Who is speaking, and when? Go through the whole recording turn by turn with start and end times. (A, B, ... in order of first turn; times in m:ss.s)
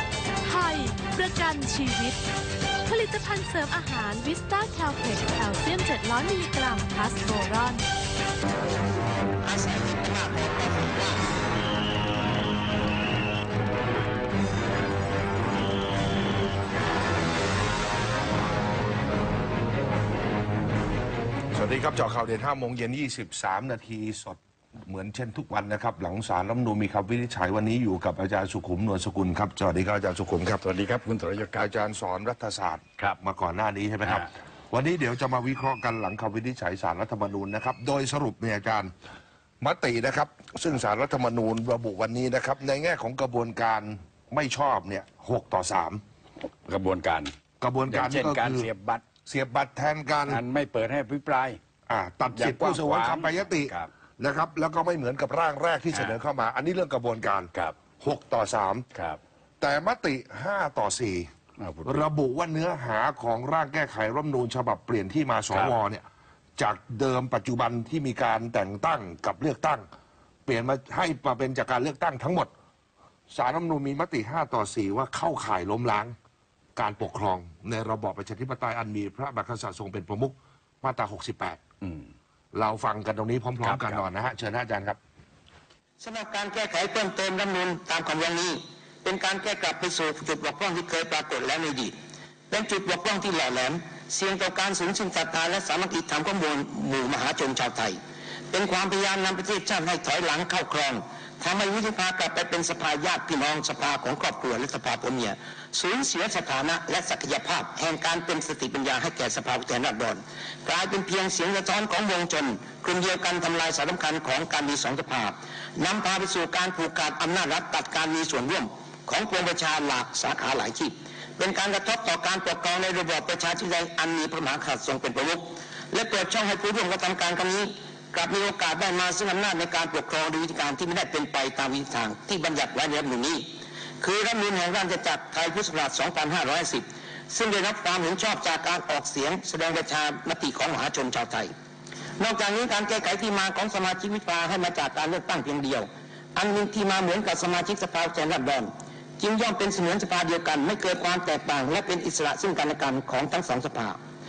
0:00.4-0:02.2 A
0:02.8-0:07.8 A
0:09.4-0:11.2 B
0:21.5-0:30.6 C
0:30.6-0:31.6 D
0:31.5-0:38.9 C
0:34.0-0:34.3 D
0:39.6-0:46.0 C
0:46.7-0:47.3 D
0:47.6-0:48.7 C
0:47.9-0:49.0 D
0:49.2-0:50.4 C
0:50.3-0:51.6 D
0:51.9-0:58.8 C
0:52.3-0:53.9 D
0:57.5-0:57.8 D
0:58.9-0:59.2 D
0:59.6-1:01.3 C
1:01.6-1:02.0 D
1:01.8-1:06.0 C
1:06.6-1:09.8 C
1:10.4-1:12.5 C
1:13.3-1:16.1 C
1:16.8-1:21.6 C
1:22.5-1:25.0 C
1:23.6-1:24.0 D
1:26.0-1:31.9 B
1:32.5-1:38.0 B
1:38.5-2:21.5 B
2:22.2-2:34.0 B